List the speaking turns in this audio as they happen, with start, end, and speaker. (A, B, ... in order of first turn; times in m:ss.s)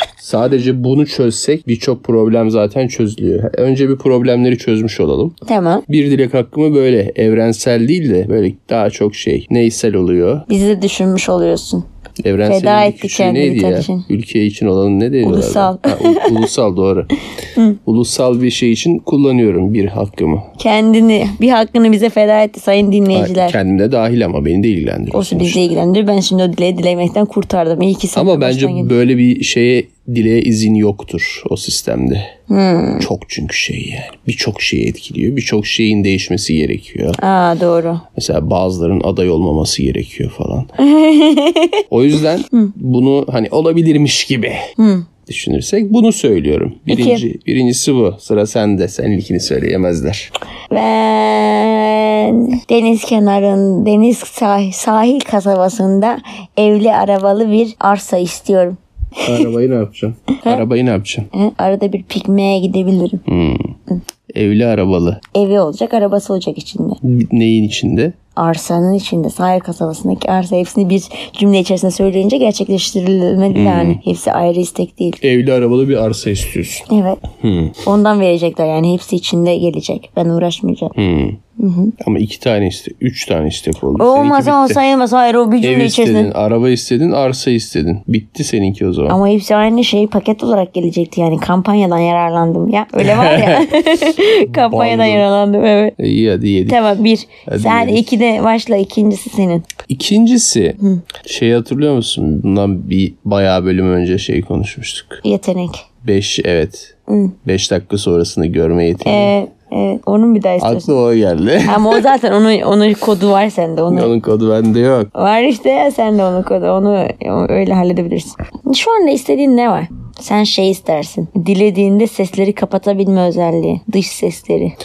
0:00.2-0:05.4 A
0:05.5-0:05.8 B
0:05.9-0:10.5 A
0:10.5-0:11.8 B
0:12.2-0:17.1 A
0:12.4-0:14.1 B
0:15.2-0:16.5 B
0:17.9-0:20.5 A
0:20.6-0:23.6 B
0:23.1-0:25.6 A
0:25.1-0:28.9 B
0:28.2-0:32.3 A
0:32.5-0:33.1 B
0:33.0-0:37.2 A
0:37.2-0:38.0 B
0:38.2-0:40.7 A
0:40.8-0:41.8 B
0:41.9-0:44.6 A
0:44.8-0:45.1 B
0:45.3-0:50.3 A
0:46.9-0:47.2 B
0:50.7-0:59.5 B
0:59.2-1:01.3 A
1:01.3-1:03.2 B
1:03.3-1:03.8 A
1:04.3-1:05.2 A
1:05.3-1:07.0 B
1:07.0-1:08.2 A
1:08.4-1:15.2 B
1:13.5-1:14.0 A
1:15.2-1:17.8 A
1:16.9-1:17.2 B
1:17.8-1:21.0 B
1:21.0-1:21.4 A
1:21.6-1:22.0 B
1:22.0-1:24.8 A
1:24.0-1:26.3 B
1:25.6-1:29.2 A
1:29.1-1:36.0 B
1:33.0-1:33.7 A
1:34.5-1:35.3 A
1:36.0-1:37.0 A
1:36.7-1:39.6 B
1:37.5-1:38.1 A
1:39.9-1:45.2 A
1:45.2-1:45.8 B
1:46.0-1:46.9 A
1:47.1-1:47.4 B
1:47.4-1:49.3 A
1:49.0-1:50.9 B
1:50.6-1:52.1 A
1:51.6-1:54.1 B
1:53.9-1:55.1 A
1:55.1-2:04.8 B